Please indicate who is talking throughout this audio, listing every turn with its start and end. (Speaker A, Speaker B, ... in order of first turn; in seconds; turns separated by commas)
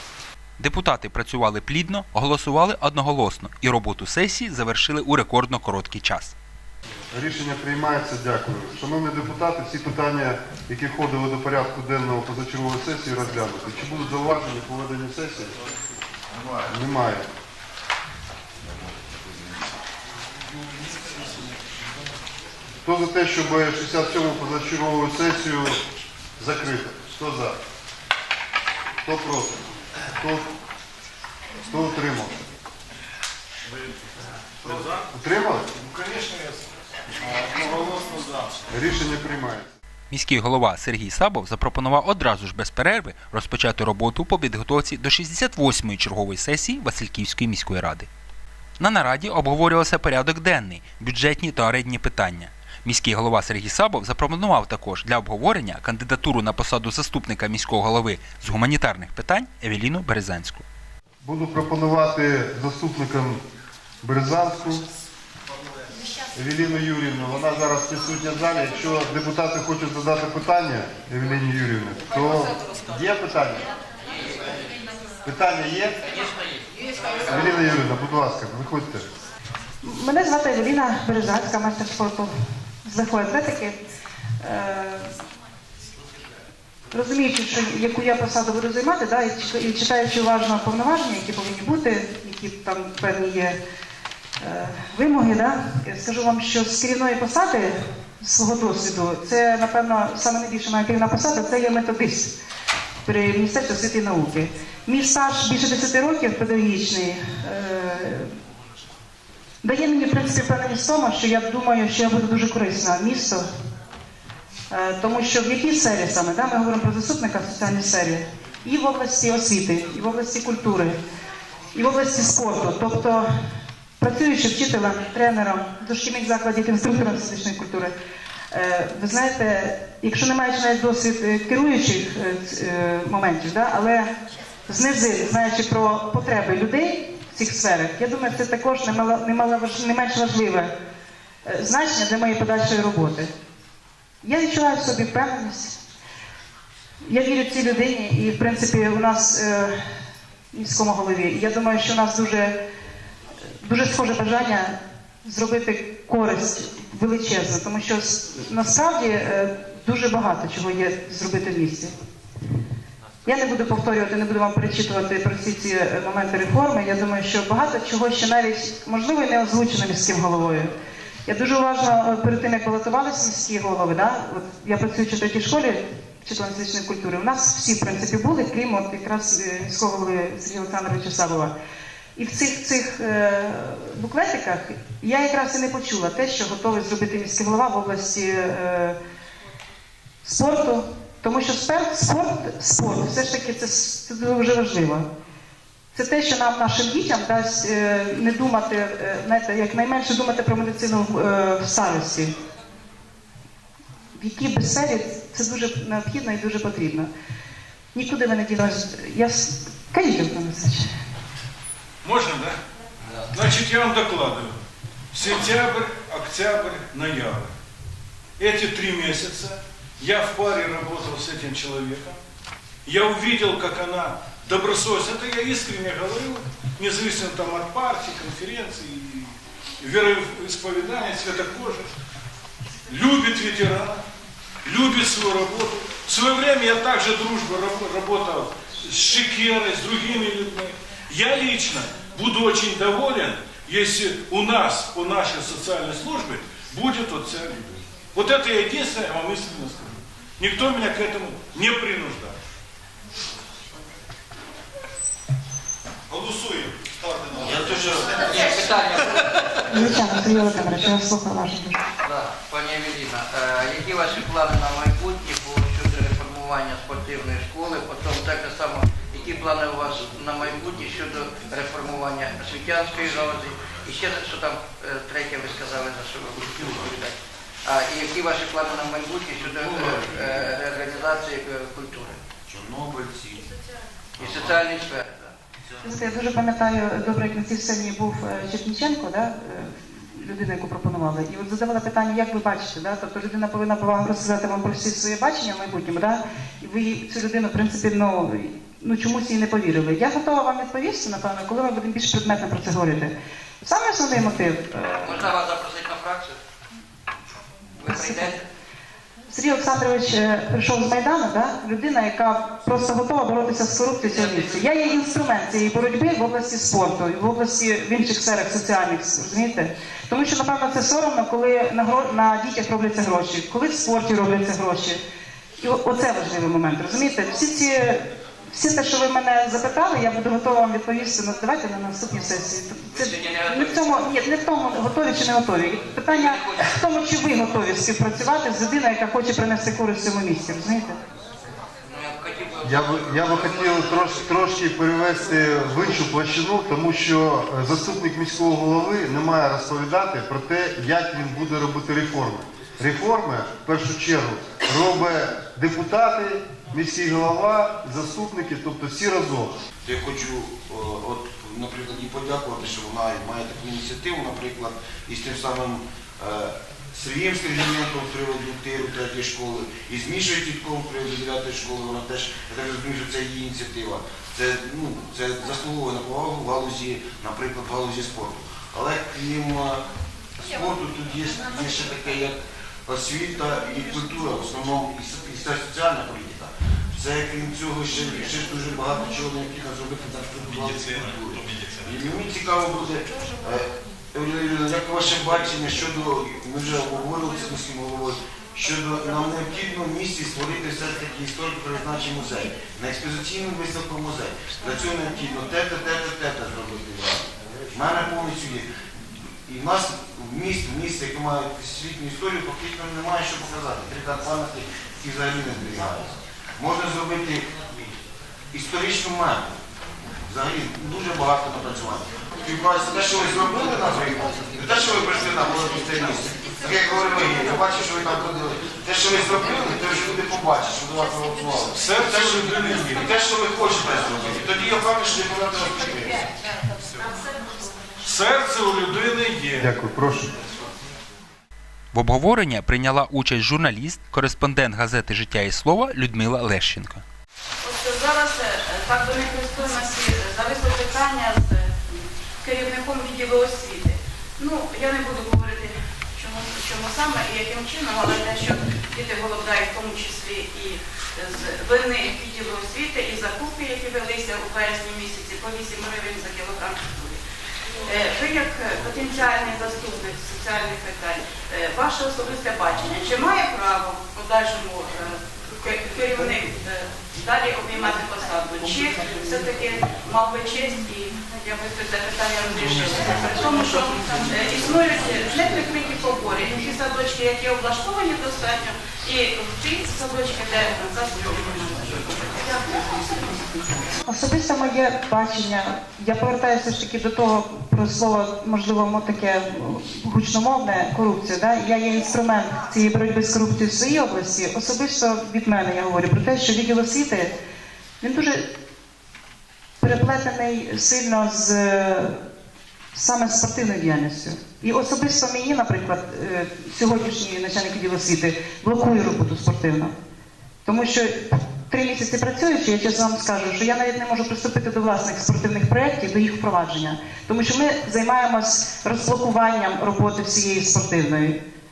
Speaker A: 0.6-6.3, Speaker B: 7.1-15.6, Speaker B: 16.7-17.3, Speaker B: 22.8-25.8, Speaker B: 26.4-27.6, Speaker B: 29.0-29.6, Speaker B: 30.2-30.5, Speaker B: 31.6-32.5, Speaker C: 34.6-35.0, Speaker B: 35.1-35.7, Speaker D: 35.9-36.6, Speaker C: 37.2-38.6, Speaker B: 38.7-39.7, Speaker A: 40.1-48.1, Speaker A: 48.8-60.6, Speaker B: 61.2-63.4, Speaker B: 64.0-64.8, Speaker B: 66.3-73.7, Speaker B: 75.2-76.0, Speaker B: 77.2-79.0, Speaker E: 79.8-82.3, Speaker E: 82.8-83.8, Speaker E: 84.4-85.1, Speaker E: 86.9-93.6, Speaker E: 94.4-102.3, Speaker E: 103.0-108.3, Speaker E: 109.6-113.5, Speaker E: 114.7-121.0, Speaker E: 121.7-123.2, Speaker E: 124.0-127.9, Speaker E: 128.5-134.1, Speaker E: 134.7-140.7, Speaker E: 141.4-143.3, Speaker E: 144.2-145.8, Speaker E: 147.0-149.7, Speaker E: 150.5-152.6, Speaker E: 153.6-161.9, Speaker E: 163.2-170.7, Speaker E: 171.3-181.5, Speaker E: 182.2-188.9, Speaker E: 190.2-195.1, Speaker E: 195.9-202.3, Speaker E: 204.1-207.1, Speaker E: 207.9-210.9, Speaker D: 212.0-212.6, Speaker D: 213.3-214.6, Speaker D: 215.1-217.5, Speaker D: 218.4-222.2, Speaker D: 222.8-231.9, Speaker D: 232.9-234.0, Speaker D: 234.6-252.4, Speaker D: 256.1-256.7, Speaker C: 256.9-258.2, Speaker F: 257.4-258.6, Speaker G: 258.2-260.0, Speaker E: 259.7-261.8, Speaker G: 262.0-282.2, Speaker F: 276.3-277.0, Speaker F: 279.3-280.8, Speaker F: 282.5-283.6, Speaker F: 284.2-285.0, Speaker G: 284.2-285.3, Speaker E: 285.8-305.4, Speaker G: 305.0-306.4, Speaker G: 307.7-308.4, Speaker E: 307.9-308.4, Speaker E: 309.3-325.0, Speaker G: 314.1-314.9, Speaker E: 325.6-341.0, Speaker G: 332.9-334.1, Speaker G: 335.9-336.7, Speaker G: 341.9-344.2, Speaker B: 342.6-359.6, Speaker F: 359.8-379.8, Speaker F: 380.4-408.7, Speaker F: 409.4-417.5, Speaker F: 418.5-419.6, Speaker F: 420.3-436.3, Speaker D: 431.7-433.1, Speaker D: 438.0-439.7, Speaker B: 439.6-440.3, Speaker A: 441.9-447.0, Speaker H: 447.6-467.2, Speaker H: 467.9-493.6, Speaker E: 494.1-507.3, Speaker E: 508.0-508.4, Speaker E: 509.8-512.2, Speaker E: 512.9-519.9, Speaker E: 520.6-531.4